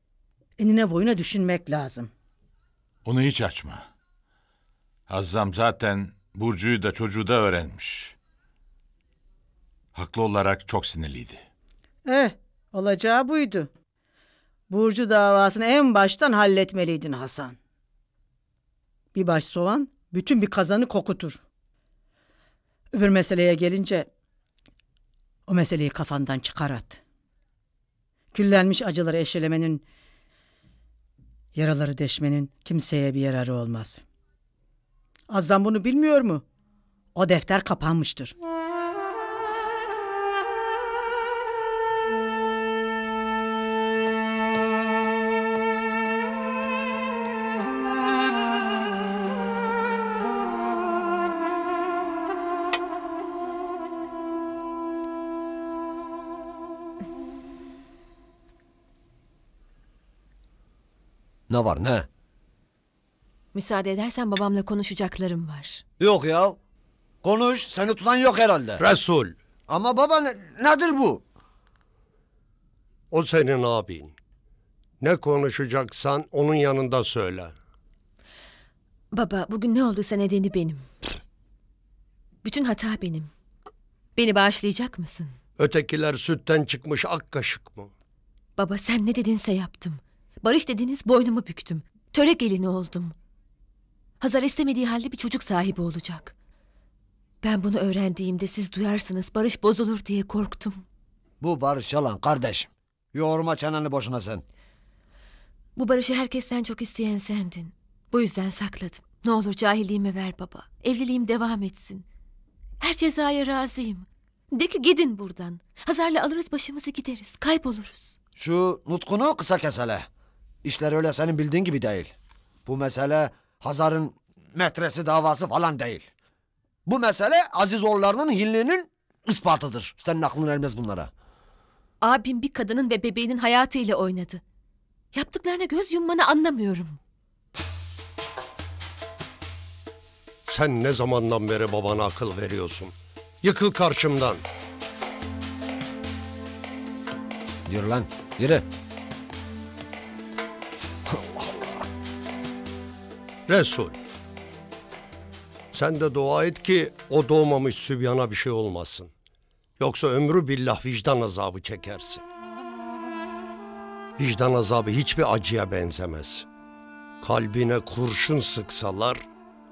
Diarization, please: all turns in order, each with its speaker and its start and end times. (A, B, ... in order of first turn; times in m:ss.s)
0:00.6-0:02.1 A
0:03.0-0:03.8 B
0:05.1-0:08.2 B
0:09.9-0:11.4 B
0:12.0-0:13.7 A
0:14.7-0:17.6 A
0:19.1-0:21.4 A
0:22.9-0:24.1 A
0:25.5-0:27.0 A
0:28.3-0:29.8 A
0:31.5-0:34.0 A
0:35.3-0:36.4 A
0:37.1-0:38.3 A
1:01.5-1:02.1 C
1:03.5-1:05.8 D
1:06.0-1:06.6 C
1:07.2-1:08.8 C
1:08.8-1:09.4 E
1:09.7-1:11.2 C
1:13.1-1:14.1 E
1:15.0-1:17.5 E
1:19.1-1:20.8 D
1:22.4-1:23.3 D
1:24.2-1:25.3 D
1:25.6-1:27.9 E
1:28.6-1:33.1 D
1:34.2-1:36.3 D
1:37.4-1:40.8 D
1:41.4-1:44.4 C
1:45.8-1:52.0 D
1:52.8-1:58.2 D
1:58.4-2:00.1 C
2:00.6-2:02.1 C
2:02.6-2:06.0 C
2:06.8-2:11.1 C
2:12.0-2:14.4 D
2:15.1-2:17.0 D
2:20.5-2:24.4 E
2:27.7-2:28.6 C
2:31.1-2:31.8 C
2:33.5-2:34.0 E
2:35.7-2:39.1 E
2:39.8-2:42.2 E
2:44.2-2:46.4 E
2:47.2-2:49.2 E